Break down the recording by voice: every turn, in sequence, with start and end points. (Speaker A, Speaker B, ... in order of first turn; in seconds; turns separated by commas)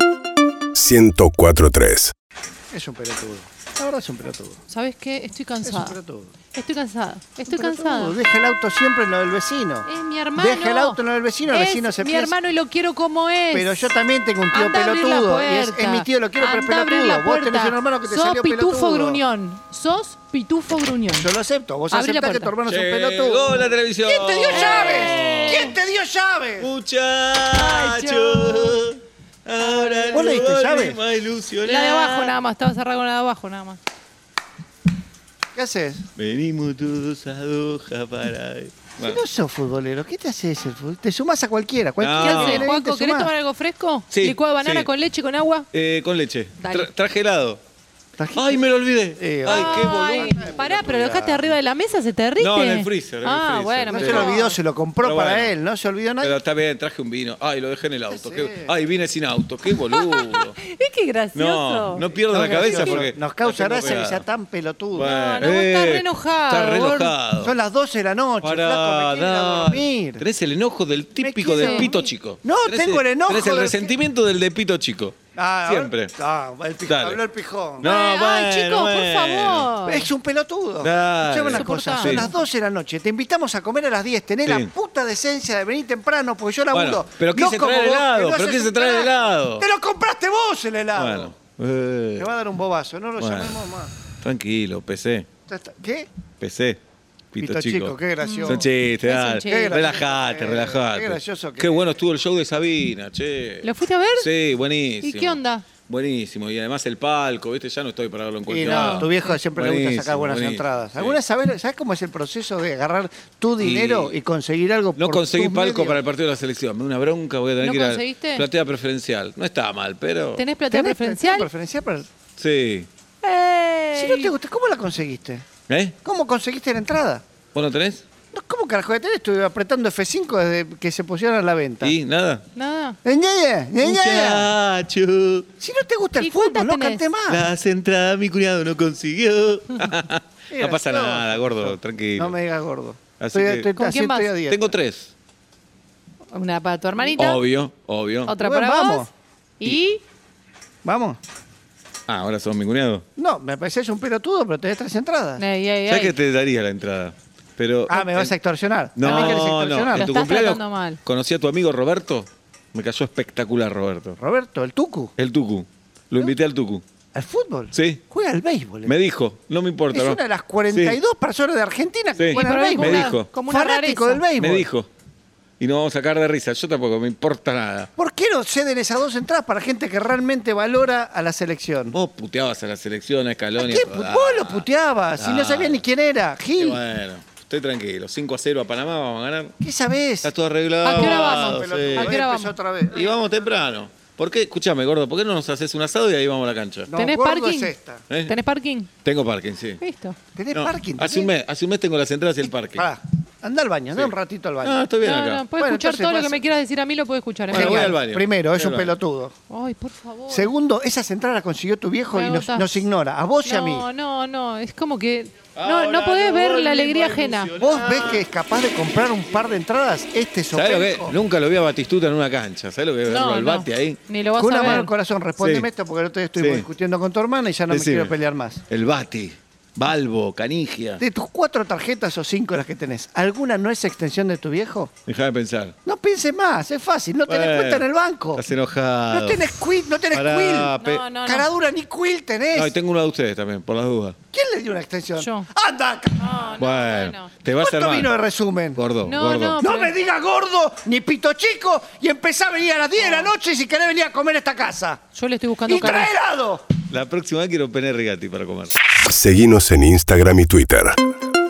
Speaker A: 0.7-2.1, Speaker B: 2.7-4.6, Speaker C: 4.7-6.0, Speaker B: 5.6-6.3, Speaker C: 6.5-8.2, Speaker B: 7.5-12.3, Speaker C: 9.8-11.0, Speaker C: 11.5-13.9, Speaker B: 13.5-19.2, Speaker C: 14.5-21.3, Speaker B: 21.1-26.7, Speaker C: 21.9-22.5, Speaker D: 22.6-25.8, Speaker C: 24.5-25.7, Speaker D: 26.6-32.4, Speaker C: 27.4-28.8, Speaker C: 29.6-30.4, Speaker B: 30.1-31.0, Speaker C: 31.6-33.8, Speaker B: 35.5-36.1, Speaker D: 36.2-39.2, Speaker B: 39.0-43.3, Speaker D: 42.0-42.7, Speaker C: 42.2-45.7, Speaker D: 44.1-44.9, Speaker D: 45.7-47.6, Speaker C: 46.6-46.9, Speaker B: 48.2-48.6, Speaker D: 48.3-50.7, Speaker B: 49.1-51.5, Speaker C: 49.4-54.6, Speaker D: 52.4-54.5, Speaker B: 53.9-56.4, Speaker D: 55.0-55.5, Speaker D: 56.2-60.5, Speaker B: 58.1-58.7, Speaker C: 59.8-63.0, Speaker D: 61.3-64.2, Speaker B: 62.2-65.1, Speaker D: 64.9-67.5, Speaker C: 65.0-67.1, Speaker B: 66.8-70.2, Speaker D: 68.4-76.1, Speaker B: 71.2-73.9, Speaker C: 71.5-72.0, Speaker B: 75.3-77.9, Speaker D: 76.8-77.2, Speaker D: 77.8-79.7, Speaker C: 77.8-80.1, Speaker B: 79.8-91.3, Speaker D: 80.8-82.3, Speaker C: 81.5-82.3, Speaker D: 84.4-84.7, Speaker D: 86.7-89.7, Speaker D: 90.9-92.3, Speaker B: 92.2-93.9, Speaker D: 93.2-93.6, Speaker D: 94.2-95.3, Speaker B: 95.5-96.1, Speaker D: 96.4-96.8, Speaker D: 97.3-111.2, Speaker B: 97.4-98.7, Speaker C: 98.2-99.9, Speaker B: 99.5-101.9, Speaker C: 103.6-104.3, Speaker C: 105.0-105.7, Speaker B: 108.5-116.0, Speaker C: 108.6-109.4, Speaker D: 113.6-114.1, Speaker D: 114.9-120.4, Speaker C: 117.6-118.5, Speaker C: 120.3-121.5, Speaker B: 120.7-122.1, Speaker D: 122.4-122.9, Speaker C: 123.2-124.3, Speaker B: 123.9-125.5, Speaker D: 125.7-126.0, Speaker B: 126.0-127.2, Speaker D: 127.5-128.0, Speaker B: 128.3-131.9, Speaker D: 131.8-132.4, Speaker C: 132.5-133.0, Speaker B: 133.0-134.5, Speaker D: 133.8-135.5, Speaker B: 135.6-137.4, Speaker C: 136.2-137.0, Speaker D: 137.3-142.4, Speaker B: 140.5-144.8, Speaker D: 143.2-143.7, Speaker C: 143.7-144.3, Speaker D: 144.4-145.1, Speaker C: 146.3-147.4, Speaker D: 147.0-148.3, Speaker C: 148.2-149.1, Speaker B: 148.4-149.1, Speaker C: 149.6-150.0, Speaker B: 150.8-151.2, Speaker D: 152.1-153.0, Speaker B: 153.2-155.4, Speaker C: 155.4-156.2, Speaker D: 155.8-158.3, Speaker B: 157.9-160.1, Speaker D: 158.9-164.2, Speaker C: 159.0-161.0, Speaker B: 164.2-165.1, Speaker D: 165.2-166.8, Speaker B: 167.1-168.9, Speaker D: 167.7-168.0, Speaker D: 168.8-171.0, Speaker B: 169.9-174.7, Speaker D: 172.2-173.3, Speaker C: 172.3-174.2, Speaker D: 174.4-174.9, Speaker D: 175.6-177.9, Speaker B: 178.0-181.9, Speaker D: 181.9-185.8, Speaker B: 183.6-186.8, Speaker D: 186.6-189.6, Speaker B: 189.6-190.3, Speaker D: 190.2-192.2, Speaker C: 190.8-192.5, Speaker B: 190.8-193.2, Speaker D: 192.9-196.9, Speaker B: 196.9-198.0, Speaker C: 196.9-198.9, Speaker D: 199.0-199.8, Speaker C: 199.8-200.2, Speaker B: 200.3-201.3, Speaker D: 200.5-202.9, Speaker B: 202.7-204.8, Speaker D: 203.9-205.5, Speaker C: 204.9-208.0, Speaker B: 205.6-206.4, Speaker D: 207.5-208.9, Speaker B: 207.5-209.3, Speaker C: 209.5-210.5, Speaker B: 210.3-213.8, Speaker C: 212.1-212.9, Speaker C: 213.4-217.5, Speaker D: 215.6-218.3, Speaker B: 217.6-221.2, Speaker D: 220.5-224.0, Speaker C: 223.1-224.9, Speaker B: 224.4-228.6, Speaker D: 225.4-225.7, Speaker D: 226.4-226.7, Speaker D: 227.7-228.1, Speaker D: 228.7-231.0, Speaker B: 231.0-234.9, Speaker D: 235.1-235.7, Speaker B: 235.8-238.4, Speaker D: 237.3-239.5, Speaker B: 239.1-242.7, Speaker D: 240.1-241.1, Speaker C: 240.8-241.5, Speaker D: 242.5-244.2, Speaker B: 244.3-246.3, Speaker C: 245.2-245.5, Speaker C: 246.2-247.3, Speaker D: 246.6-248.1, Speaker B: 247.5-248.8, Speaker D: 248.8-249.6, Speaker C: 249.0-250.0, Speaker B: 249.6-255.0, Speaker C: 253.0-253.3, Speaker C: 255.1-256.1, Speaker B: 255.6-256.6, Speaker D: 256.9-258.8, Speaker A: 259.0-261.0